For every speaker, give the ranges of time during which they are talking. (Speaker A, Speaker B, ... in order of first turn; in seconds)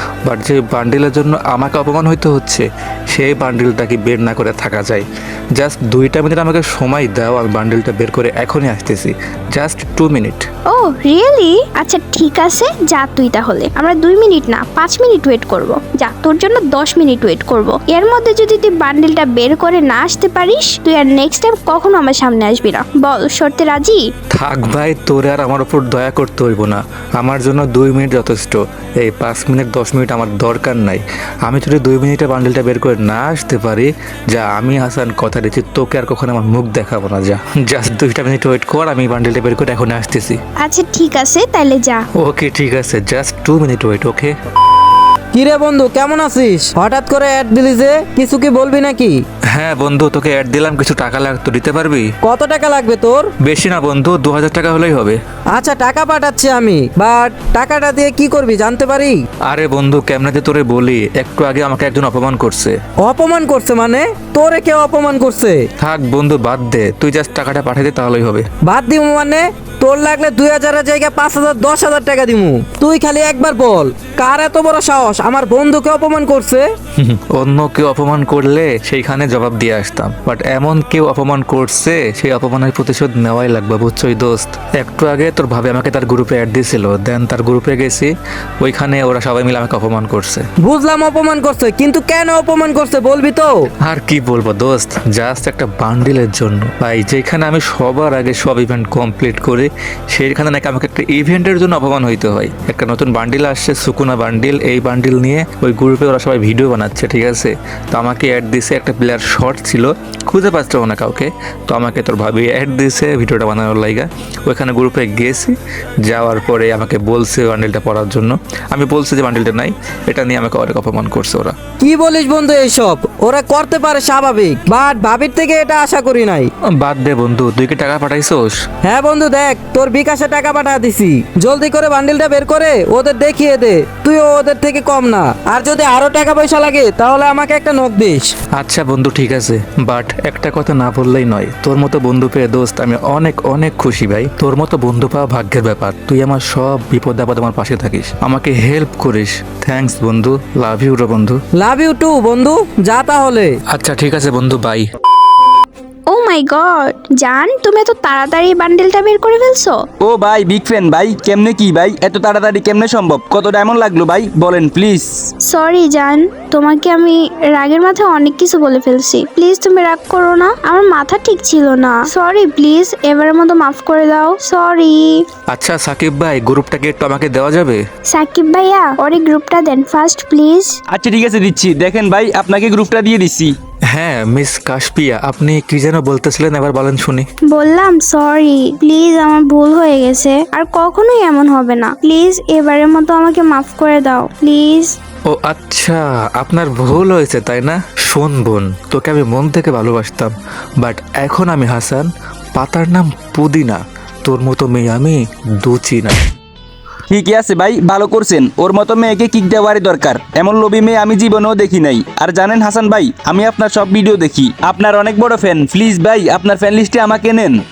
Speaker A: 0.2-10.4, 24.3-40.4, 42.2-44.3, 49.5-52.1, 53.4-55.2, 59.4-62.8, 65.8-68.4, 77.0-90.4, 93.8-121.5, 126.8-128.6, 138.6-151.4, 153.7-154.8, 175.5-177.8, 183.9-187.2, 195.3-206.2
Speaker B: 10.7-24.0, 40.6-42.0, 156.1-159.8, 165.4-175.2, 178.1-180.7, 187.5-194.9
Speaker C: 45.3-49.2, 52.2-53.3, 55.5-59.2, 63.0-65.7, 68.6-76.7, 90.6-93.7, 121.8-126.5, 128.8-138.3, 151.6-153.6
Speaker D: 160.0-165.2, 180.9-183.5, 207.1-217.6